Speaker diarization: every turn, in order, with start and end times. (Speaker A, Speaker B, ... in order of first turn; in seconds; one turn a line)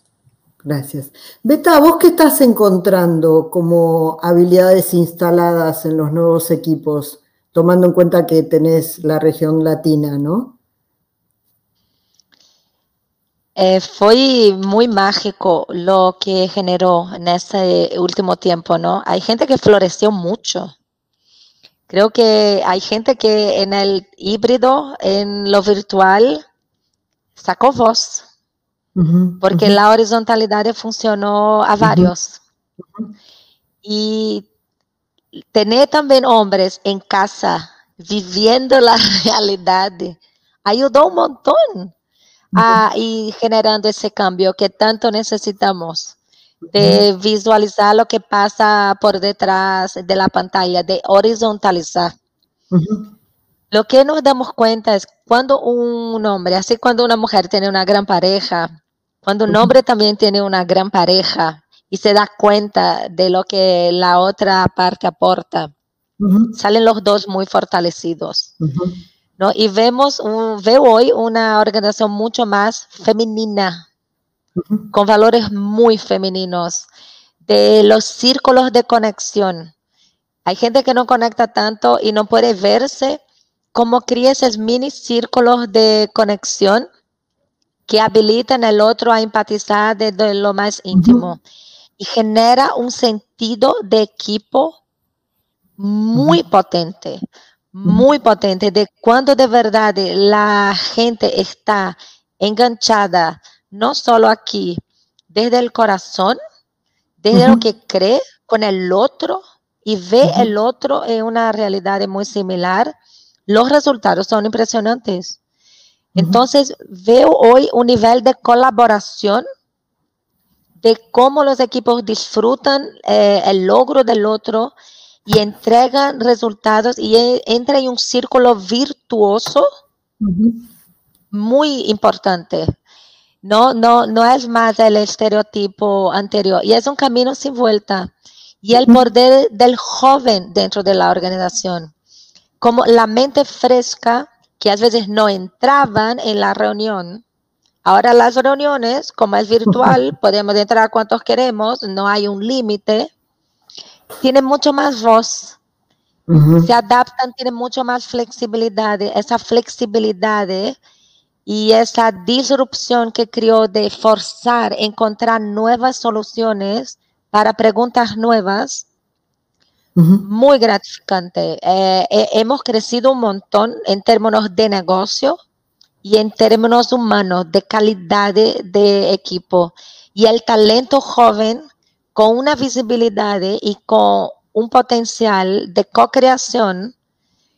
Speaker A: 0.6-10.6
Speaker B: 13.6-20.7
Speaker B: 21.9-26.4
Speaker B: 27.4-28.2
Speaker A: 29.0-29.8
Speaker B: 29.4-32.4
Speaker A: 31.8-32.1
Speaker A: 32.8-33.1
Speaker B: 33.9-34.5
Speaker B: 35.5-41.9
Speaker B: 42.6-46.2
Speaker A: 46.7-47.0
Speaker B: 46.7-52.1
Speaker A: 52.7-53.1
Speaker B: 53.7-58.7
Speaker B: 59.2-65.7
Speaker A: 66.2-66.5
Speaker B: 66.5-68.5
Speaker A: 68.6-69.0
Speaker B: 69.4-73.8
Speaker A: 74.6-74.9
Speaker B: 74.9-76.9
Speaker B: 77.5-79.7
Speaker B: 80.5-83.2
Speaker B: 83.7-86.9
Speaker B: 87.9-91.4
Speaker A: 90.9-91.2
Speaker B: 92.0-94.8
Speaker B: 95.8-97.2
Speaker B: 97.7-104.8
Speaker B: 105.3-106.4
Speaker B: 107.2-112.9
Speaker A: 107.3-107.6
Speaker A: 110.2-110.5
Speaker B: 113.5-115.4
Speaker B: 116.2-119.4
Speaker B: 120.8-124.7
Speaker B: 125.3-129.7
Speaker A: 130.2-130.6
Speaker B: 131.3-132.7
Speaker B: 133.4-138.1
Speaker B: 138.6-141.9
Speaker A: 138.8-139.1
Speaker B: 142.6-147.2
Speaker B: 147.8-153.1
Speaker B: 154.2-155.6
Speaker A: 156.3-156.7
Speaker B: 156.6-160.8
Speaker B: 161.5-168.9
Speaker A: 170.0-170.2
Speaker B: 170.2-175.4
Speaker B: 176.0-186.9